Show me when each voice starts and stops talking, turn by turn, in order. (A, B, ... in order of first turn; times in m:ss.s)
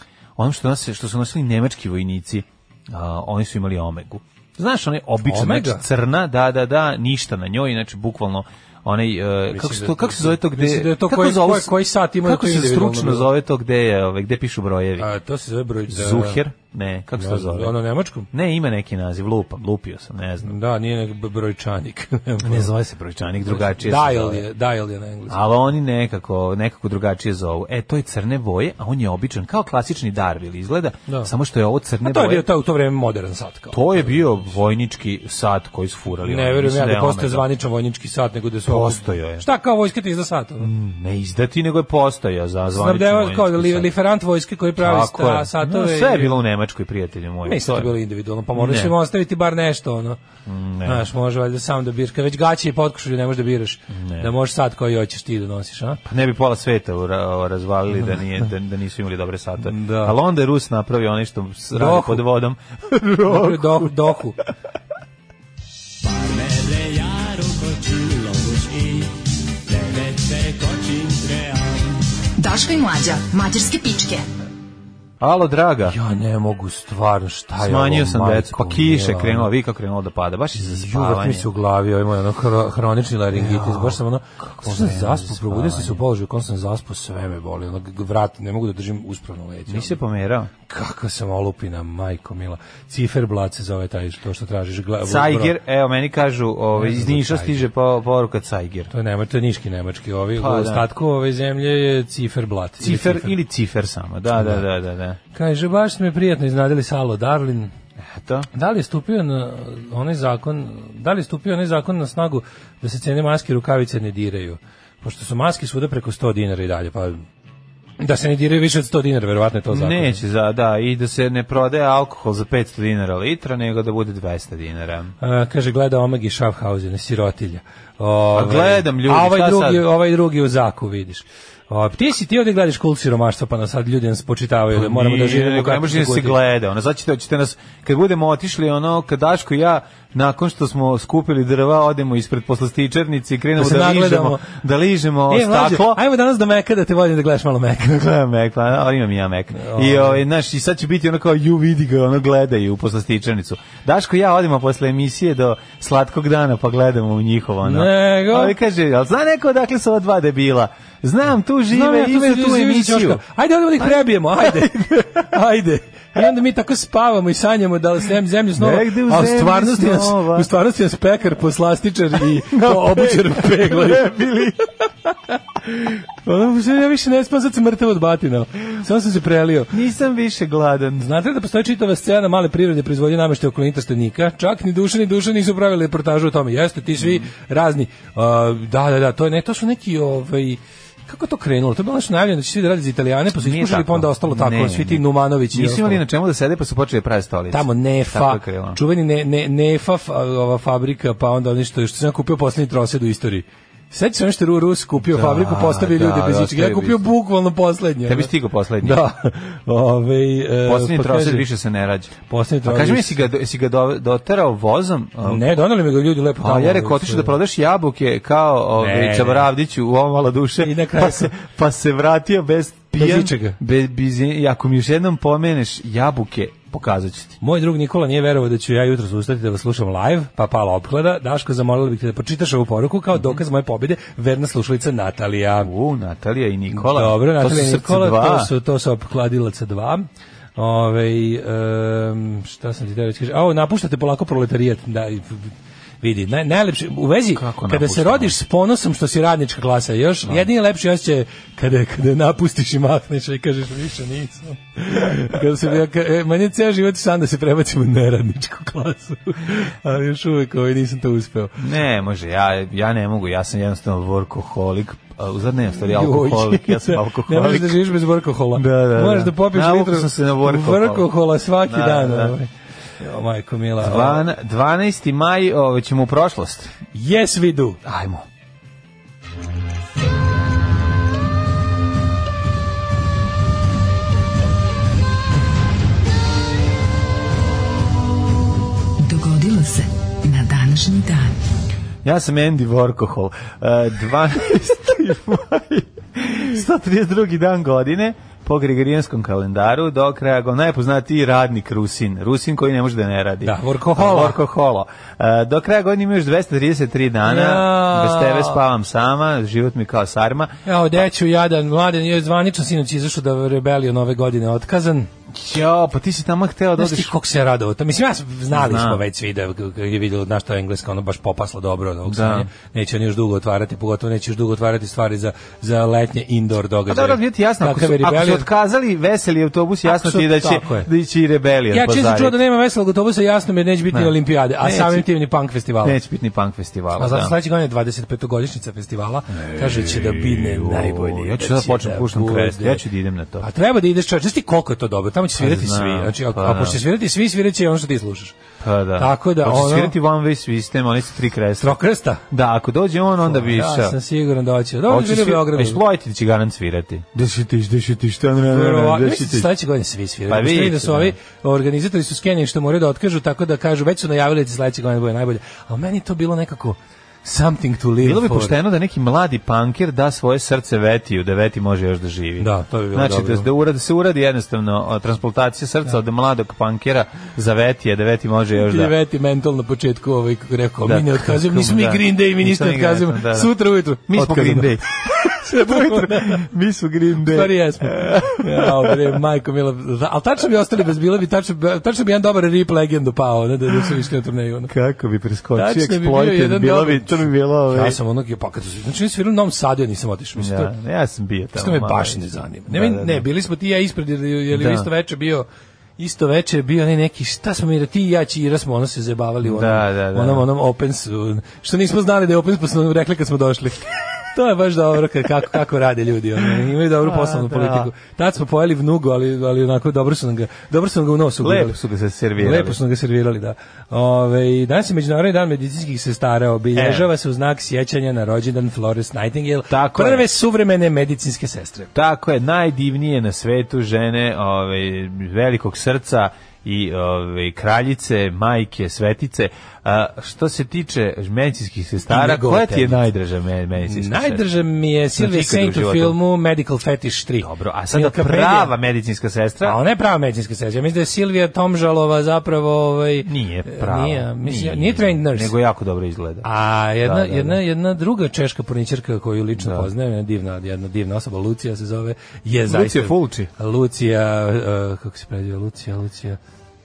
0:00.4-0:15.1 A
0:05.2-0:05.8 B
0:09.5-0:13.3 B
0:15.0-0:16.4 B
0:15.9-0:17.8 A
0:17.1-0:18.3 B
0:18.3-0:20.6 A
0:20.4-0:22.7 B
0:22.4-0:24.4 A
0:23.4-0:25.4 B
0:25.3-0:32.4 A
0:32.0-0:34.2 B
0:33.7-0:37.5 A
0:36.2-0:40.7 B
0:38.6-0:39.4 A
0:40.6-0:43.9 A
0:42.7-0:46.4 B
0:44.8-0:47.9 A
0:47.4-0:50.2 B
0:48.6-0:48.9 A
0:50.4-0:51.0 A
0:50.8-0:56.0 B
0:53.9-0:54.3 A
0:56.1-1:04.0 A
0:59.6-1:00.1 B
1:01.7-1:02.2 B
1:03.2-1:04.4 B
1:12.4-1:14.2 C
1:15.2-1:16.0 A
1:15.9-1:19.5 B
1:17.6-1:21.4 A
1:20.5-1:30.0 B
1:23.3-1:26.0 A
1:29.7-1:30.5 A
1:30.7-1:35.5 B
1:35.0-1:38.9 A
1:36.7-1:37.6 B
1:38.9-1:43.3 B
1:40.4-1:40.8 A
1:42.8-1:45.2 A
1:44.4-1:44.6 B
1:45.3-1:47.7 B
1:48.0-1:48.5 A
1:48.5-1:57.2 B
1:58.0-2:00.2 B
1:59.7-2:05.1 A
2:05.2-2:16.4 B
2:08.3-2:09.9 A
2:14.7-2:26.0 A
2:23.6-2:24.5 B
2:25.3-2:28.0 B
2:27.8-2:43.2 A
2:29.6-2:30.2 B
2:37.6-2:38.6 B
2:41.7-2:54.1 B
2:43.8-2:45.2 A
2:48.6-2:50.5 A
2:52.5-2:54.6 A
2:55.3-2:59.7 B
2:59.7-3:01.1 A
3:01.0-3:16.0 B
3:07.0-3:07.2 A
3:13.4-3:18.8 A
3:17.5-3:31.4 B
3:25.0-3:27.1 A
3:28.0-3:29.0 A
3:30.6-3:35.4 A
3:32.3-3:33.2 B
3:35.2-3:37.4 B
3:36.4-3:47.4 A
3:38.8-3:39.5 B
3:40.6-3:41.3 B
3:42.9-3:43.6 B
3:47.4-3:55.7 B
3:55.6-3:58.5 A
3:56.7-4:21.6 B
4:07.3-4:08.3 A
4:21.6-4:27.9 A
4:25.9-4:34.2 B
4:28.5-4:31.1 A
4:31.6-4:32.4 A
4:33.8-4:36.7 A
4:36.9-4:37.8 B
4:37.8-4:38.2 A
4:49.0-4:51.4 C
4:52.0-5:10.5 A
5:03.4-5:04.4 B
5:07.2-5:08.6 B
5:10.6-5:15.1 B
5:15.3-5:17.1 A
5:16.8-5:28.5 B
5:18.5-5:19.0 A
5:22.0-5:22.5 A
5:26.9-5:32.4 A
5:29.8-5:30.9 B
5:31.7-5:36.0 B
5:33.9-5:35.1 A
5:35.8-5:37.3 A
5:37.0-5:42.8 B
5:39.3-5:43.5 A
5:43.4-5:48.3 B
5:45.4-5:46.8 A
5:48.6-5:54.0 A
5:49.0-5:49.9 B
5:51.6-5:52.2 B
5:53.2-5:55.8 B
5:54.9-5:59.5 A
5:58.4-6:08.6 B
6:00.3-6:01.2 A
6:08.0-6:18.9 A
6:12.4-6:13.5 B
6:18.6-6:26.5 B
6:20.8-6:23.5 A
6:24.1-6:29.2 A
6:27.2-6:34.7 B
6:34.7-6:38.0 A
6:35.6-6:40.7 B
6:40.4-6:43.2 A
6:41.6-6:45.4 B
6:44.5-6:44.9 A
6:46.0-7:01.8 B
6:49.4-6:50.4 A
6:57.0-6:57.9 A
7:01.4-7:02.8 A
7:02.4-7:11.9 B
7:06.7-7:07.1 A
7:09.7-7:10.2 A
7:11.9-7:24.4 A
7:22.1-7:23.0 B
7:23.8-7:28.7 B
7:25.2-7:26.2 A
7:27.4-7:29.8 A
7:29.6-7:35.5 B
7:33.2-7:36.5 A
7:36.4-7:46.4 B
7:37.0-7:37.6 A
7:39.6-7:39.9 A
7:42.7-7:43.5 A